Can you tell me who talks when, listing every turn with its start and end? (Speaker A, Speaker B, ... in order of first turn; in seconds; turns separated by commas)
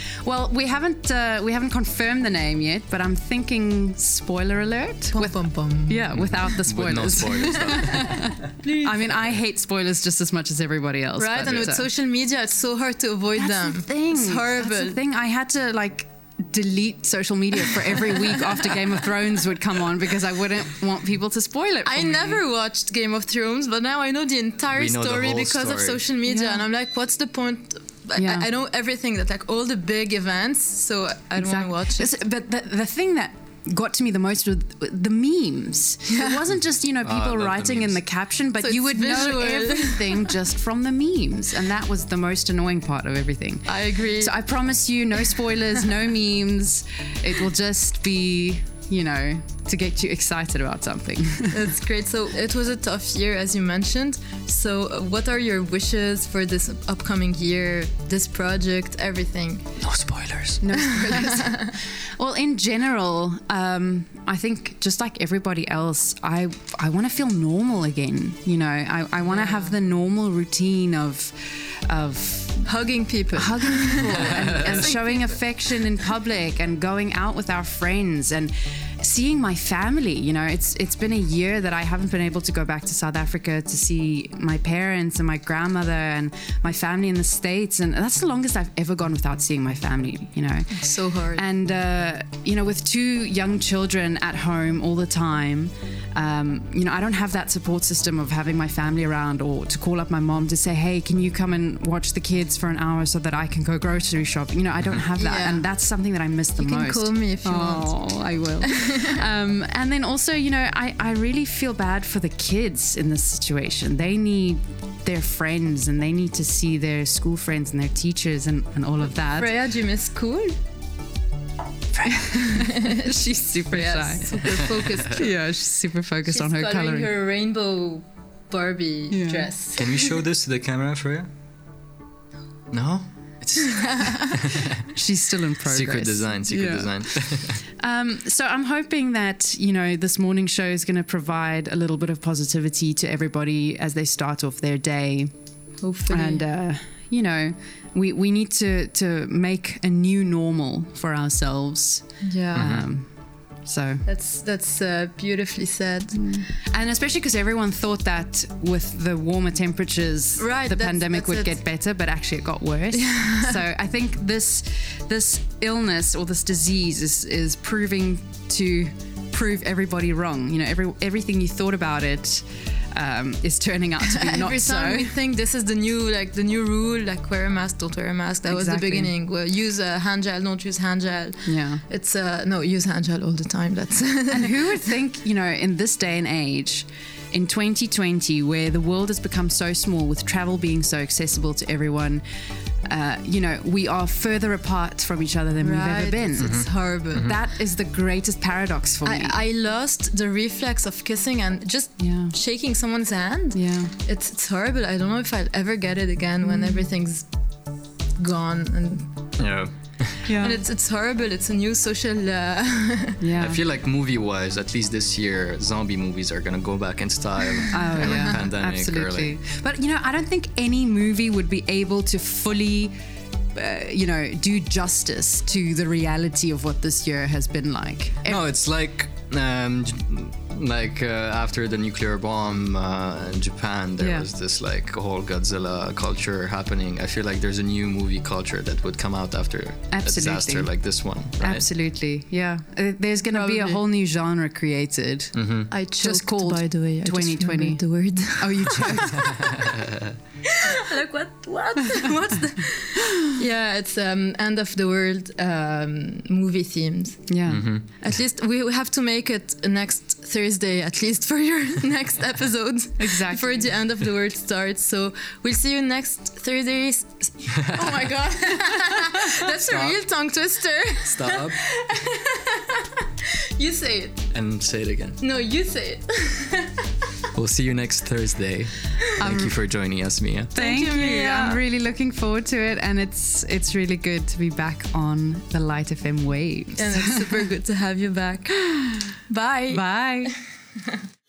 Speaker A: 0.2-11.8, Speaker B: 5.1-6.6, Speaker C: 6.1-8.3, Speaker B: 8.6-9.0, Speaker B: 11.2-15.0, Speaker A: 13.3-22.4, Speaker B: 21.8-32.1, Speaker C: 24.7-26.0, Speaker A: 26.2-26.6, Speaker A: 28.2-28.5, Speaker A: 31.4-51.6, Speaker B: 36.1-36.4, Speaker C: 37.0-38.0, Speaker B: 38.6-40.3, Speaker B: 43.6-44.3, Speaker B: 51.5-59.6, Speaker C: 59.8-60.6, Speaker A: 60.6-72.7, Speaker B: 60.7-61.7, Speaker B: 69.2-69.8, Speaker B: 72.6-75.4, Speaker A: 73.3-119.6, Speaker C: 74.3-74.7, Speaker B: 90.7-91.4, Speaker B: 105.2-105.6, Speaker B: 106.5-108.0, Speaker B: 108.6-109.2, Speaker B: 119.3-120.5, Speaker A: 121.9-127.1, Speaker B: 122.6-123.0, Speaker B: 123.7-125.3, Speaker B: 126.3-130.2, Speaker A: 129.1-129.5, Speaker C: 129.8-131.3, Speaker C: 132.7-134.8, Speaker B: 133.6-134.3, Speaker A: 134.9-137.0, Speaker C: 135.7-137.6, Speaker A: 137.8-145.3, Speaker B: 145.8-146.4, Speaker A: 146.1-153.1, Speaker B: 152.2-152.7, Speaker C: 152.6-152.9, Speaker A: 153.6-154.0, Speaker B: 154.0-156.3, Speaker A: 156.1-175.2, Speaker B: 160.4-161.6, Speaker B: 162.9-163.6, Speaker B: 174.0-184.6, Speaker A: 178.4-179.1, Speaker A: 181.4-181.8, Speaker A: 184.3-192.2, Speaker A: 192.8-199.4, Speaker B: 195.6-197.3, Speaker C: 196.4-197.3, Speaker B: 199.0-207.3, Speaker A: 202.0-202.4, Speaker A: 203.5-203.9, Speaker A: 206.4-206.9, Speaker B: 208.2-209.1, Speaker C: 209.4-210.3, Speaker A: 210.3-210.6, Speaker B: 210.3-213.2, Speaker A: 213.2-213.6, Speaker C: 213.4-219.3, Speaker A: 217.7-222.9, Speaker B: 218.0-218.4, Speaker A: 223.5-228.4, Speaker C: 228.2-241.7, Speaker A: 234.0-234.3, Speaker A: 239.9-240.7, Speaker A: 241.4-245.3, Speaker B: 243.2-243.8, Speaker C: 245.3-245.7, Speaker B: 245.7-249.5, Speaker A: 245.9-249.5, Speaker B: 250.4-257.3, Speaker A: 257.3-257.6, Speaker C: 257.5-257.8, Speaker B: 257.9-273.0, Speaker A: 263.0-263.7, Speaker C: 269.6-270.0, Speaker C: 271.0-271.6, Speaker B: 273.6-274.2, Speaker C: 274.3-275.2, Speaker B: 275.2-276.9, Speaker C: 277.3-280.5, Speaker A: 279.2-279.6, Speaker A: 280.5-287.4, Speaker B: 280.5-281.6, Speaker B: 286.8-288.6, Speaker B: 289.2-289.8, Speaker A: 289.7-290.3